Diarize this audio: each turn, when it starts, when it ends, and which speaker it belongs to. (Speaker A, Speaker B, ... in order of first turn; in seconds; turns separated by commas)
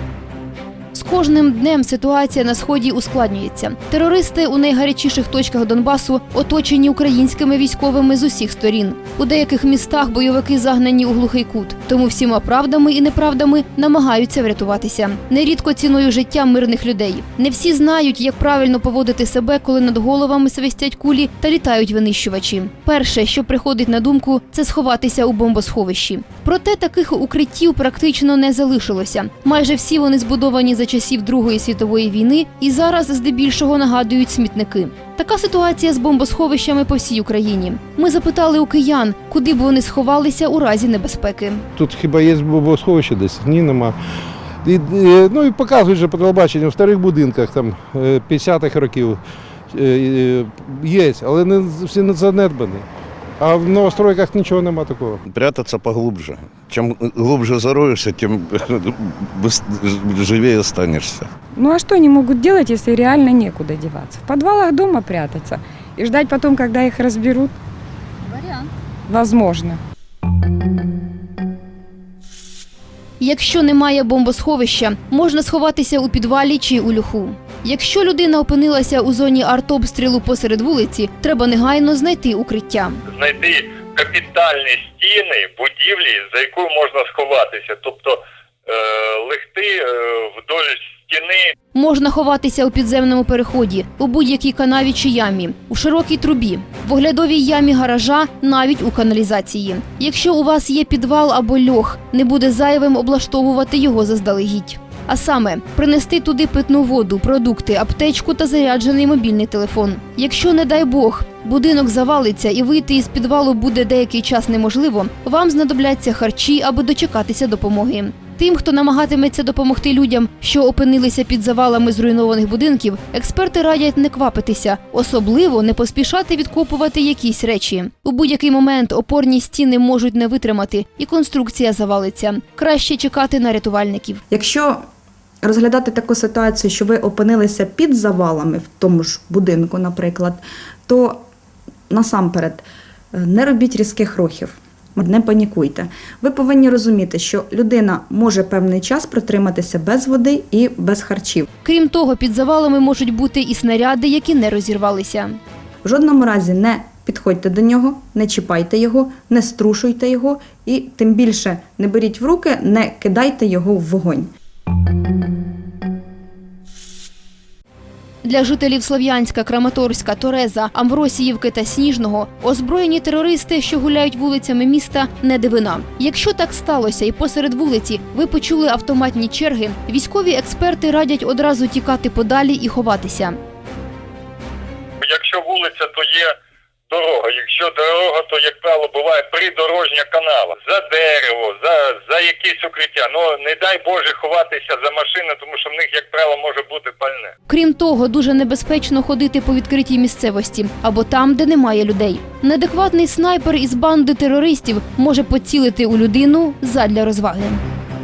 Speaker A: 0.9-41.6, Speaker B: 41.8-44.0, Speaker B: 44.6-49.2, Speaker B: 49.7-52.9, Speaker B: 53.4-55.2, Speaker C: 55.3-61.3, Speaker D: 61.5-67.5, Speaker D: 68.4-69.8, Speaker A: 73.2-83.0, Speaker E: 83.1-91.5, Speaker A: 91.7-134.2, Speaker F: 134.3-134.8, Speaker F: 135.4-141.3, Speaker F: 141.9-142.6, Speaker F: 143.2-151.5, Speaker A: 151.7-155.4, Speaker F: 155.8-164.3, Speaker A: 168.2-183.4, Speaker E: 185.0-186.3, Speaker E: 186.9-197.3, Speaker A: 197.5-207.6